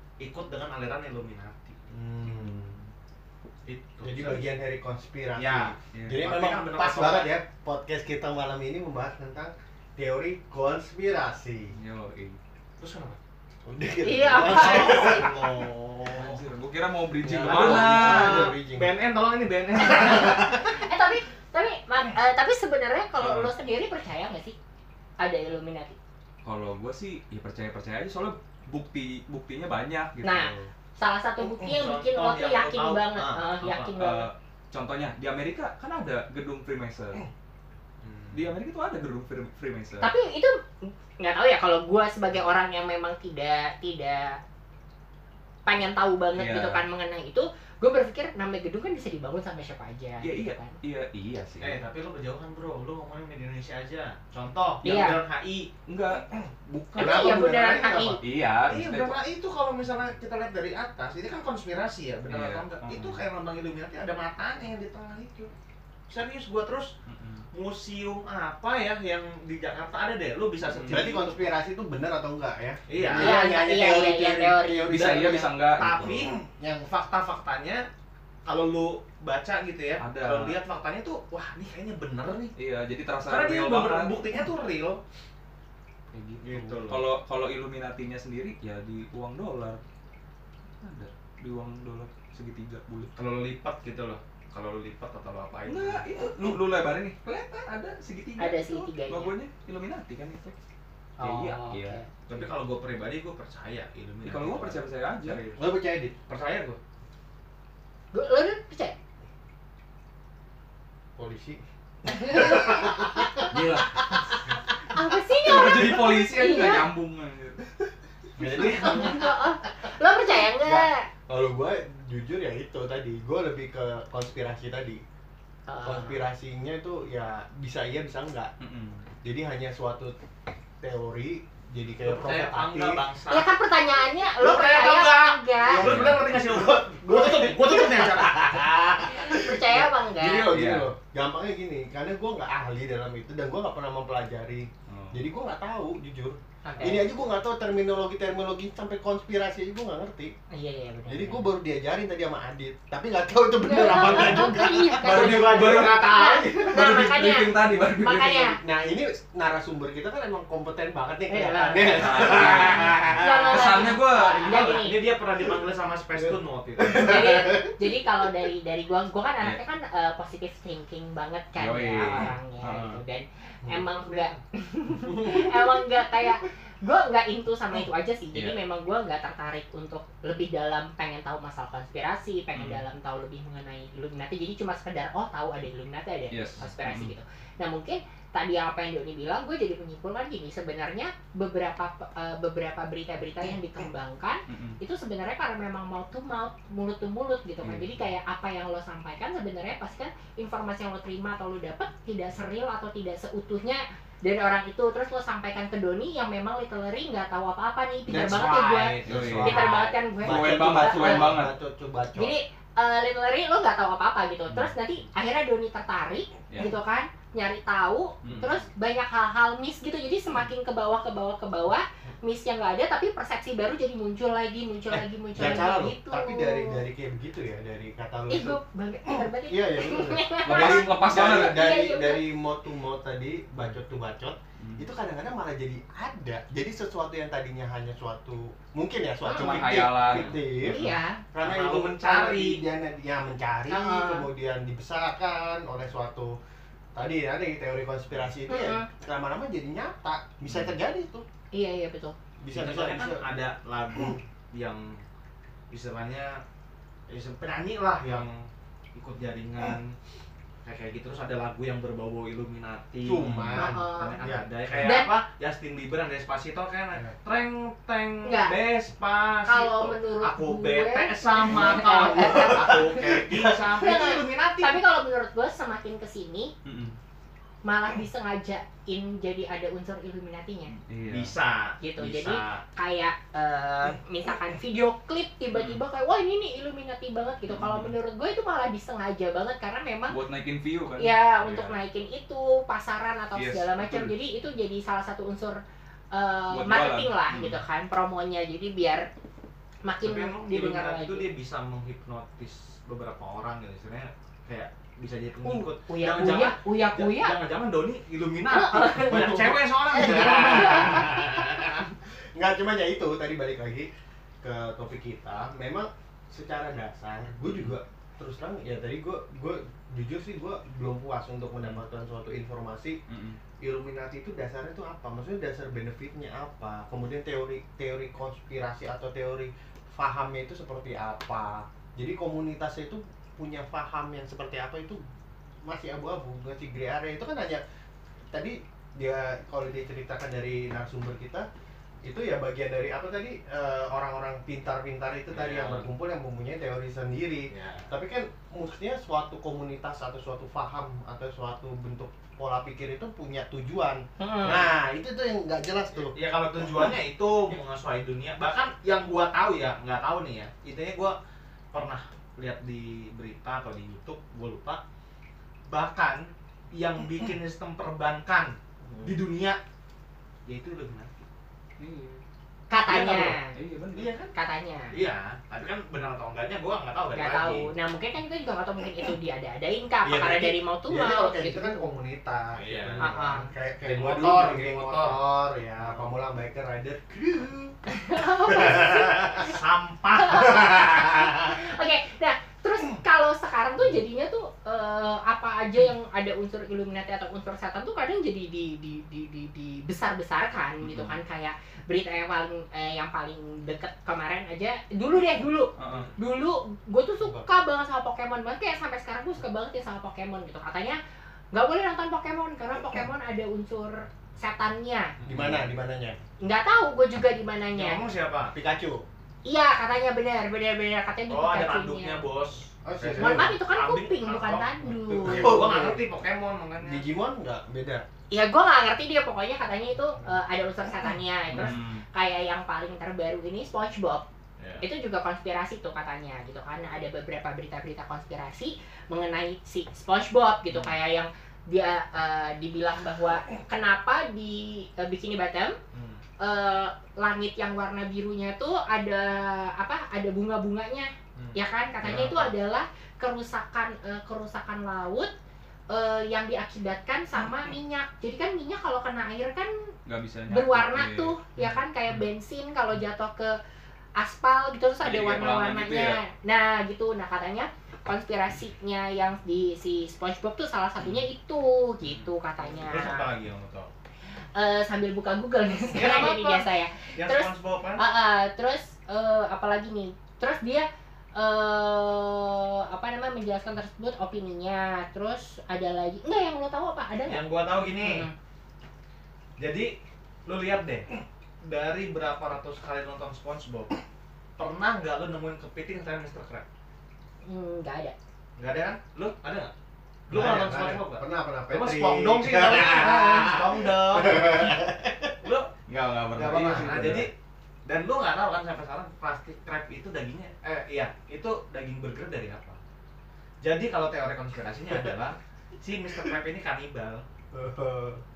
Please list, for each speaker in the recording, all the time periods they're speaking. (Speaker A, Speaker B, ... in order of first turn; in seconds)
Speaker A: 0.2-1.8, 3.7-4.4, 5.4-7.3, 12.8-13.2, 14.4-16.4, 17.2-20.6, 31.6-33.9, 38.0-38.4, 51.6-55.7, 58.7-65.5, 66.1-66.9, 67.5-71.5, 72.9-73.5, 74.9-77.9, 78.5-82.5, 83.3-85.0, 86.4-87.0, 93.2-96.0, 102.3-105.7, 106.2-106.8, 118.4-119.1, 132.0-133.5, 134.4-138.7, 155.0-156.2, 164.4-167.4, 173.9-174.4, 208.3-209.8, 218.2-218.6, 240.0-240.4, 241.4-242.6, 252.5-255.0, 255.7-256.4, 257.1-260.0, 260.6-274.8, 281.1-282.6, 300.0-311.6, 345.3-345.9, 347.5-347.9, 356.1-361.2, 361.7-364.8, 365.7-369.6, 370.5-371.1, 372.9-373.4, 373.9-374.3, 374.9-377.7, 382.6-383.2, 383.9-385.2, 385.8-386.1, 388.6-391.1, 415.3-415.5, 417.7-418.5, 421.3-427.1, 434.6-434.9, 445.9-446.2, 451.4-452.5, 472.0-473.9, 475.9-478.0, 487.3-488.3, 489.6-491.1, 491.6-493.9, 494.6-496.7, 498.6-499.7, 500.3-504.9, 505.4-505.7, 506.3-507.3, 507.9-512.8, 513.6-517.2
Speaker B: 1.9-2.8, 4.0-11.8, 13.7-15.6, 17.4-18.9, 20.0-20.6, 57.0-58.2, 70.9-75.5, 76.4-76.9, 105.6-106.1, 111.2-111.6, 112.1-113.5, 118.4-119.3, 120.6-125.0, 125.8-128.5, 129.2-130.2, 130.8-133.0, 135.7-150.3, 151.1-155.8, 158.6-163.8, 166.2-167.8, 175.1-175.8, 208.1-212.4, 224.9-228.6, 229.4-246.4, 246.9-251.2, 252.4-253.2, 263.0-264.9, 271.6-273.5, 310.0-311.8, 312.3-313.9, 314.4-323.0, 323.6-335.0, 335.6-337.6, 338.3-341.5, 342.0-356.1, 380.1-387.8, 388.5-389.2, 415.3-416.2, 418.5-419.0, 422.8-423.6, 425.2-426.0, 426.8-428.1, 500.3-505.3, 506.5-507.3, 514.9-515.1, 517.5-518.2
Speaker C: 2.4-2.9, 5.9-6.2, 11.7-12.4, 16.1-18.5, 23.2-23.5, 26.4-30.7, 33.9-37.2, 38.3-40.1, 46.4-46.8, 50.2-51.8, 55.9-57.3, 58.2-59.2, 62.3-63.2, 67.1-67.5, 70.6-71.1, 74.9-76.3, 80.0-80.6, 82.6-84.2, 86.1-89.8, 90.8-93.1, 95.7-100.5, 101.2-102.0, 104.2-105.4, 113.5-114.0, 115.4-117.7, 128.6-129.1, 135.8-136.2, 140.5-140.9, 144.9-145.2, 155.0-158.6, 161.9-164.9, 171.6-173.0, 182.6-182.8, 186.3-187.1, 194.5-194.8, 197.6-197.9, 209.1-209.7, 210.2-211.5, 225.4-225.7, 230.4-231.8, 234.6-234.9, 239.3-241.0, 263.2-263.6, 276.6-277.0, 280.8-281.3, 285.5-285.8, 287.5-287.9, 290.1-291.7, 293.3-294.1, 296.5-297.6, 317.5-317.7, 323.1-323.4, 371.8-372.2, 373.5-374.1, 400.8-401.2, 405.8-406.1, 415.3-415.7, 431.5-432.0, 460.1-462.2, 465.0-466.2, 505.9-507.3
Speaker D: 14.0-15.3, 19.9-24.6, 25.2-26.0, 30.2-34.3, 40.0-44.4, 45.7-50.8, 54.8-55.2, 57.0-58.2, 73.2-75.0, 98.4-99.3, 101.2-102.1, 108.1-109.0, 112.1-113.3, 114.9-116.9, 118.6-121.1, 125.7-126.2, 133.3-135.9, 139.1-140.5, 146.7-147.1, 150.5-151.5, 153.6-158.6, 161.3-165.0, 166.9-211.3, 212.2-226.8, 228.3-232.3, 239.2-239.6, 240.6-241.2, 243.7-244.3, 248.5-248.9, 251.5-252.2, 263.5-264.3, 264.8-265.1, 268.2-268.6, 269.4-273.0, 273.7-276.5, 277.6-280.7, 281.8-290.2, 291.0-295.6, 296.1-299.1, 299.8-301.3, 305.4-307.4, 308.5-311.2, 354.2-354.7, 372.7-373.5, 374.3-375.0, 377.1-381.9, 383.0-383.5, 387.9-389.5, 390.2-411.0, 411.5-415.1, 416.4-418.0, 419.4-422.2, 423.2-425.7, 428.3-434.3, 434.8-445.8, 446.4-455.3, 455.9-459.8, 460.5-463.6, 464.2-473.3, 474.6-487.5, 488.0-488.3, 497.4-498.1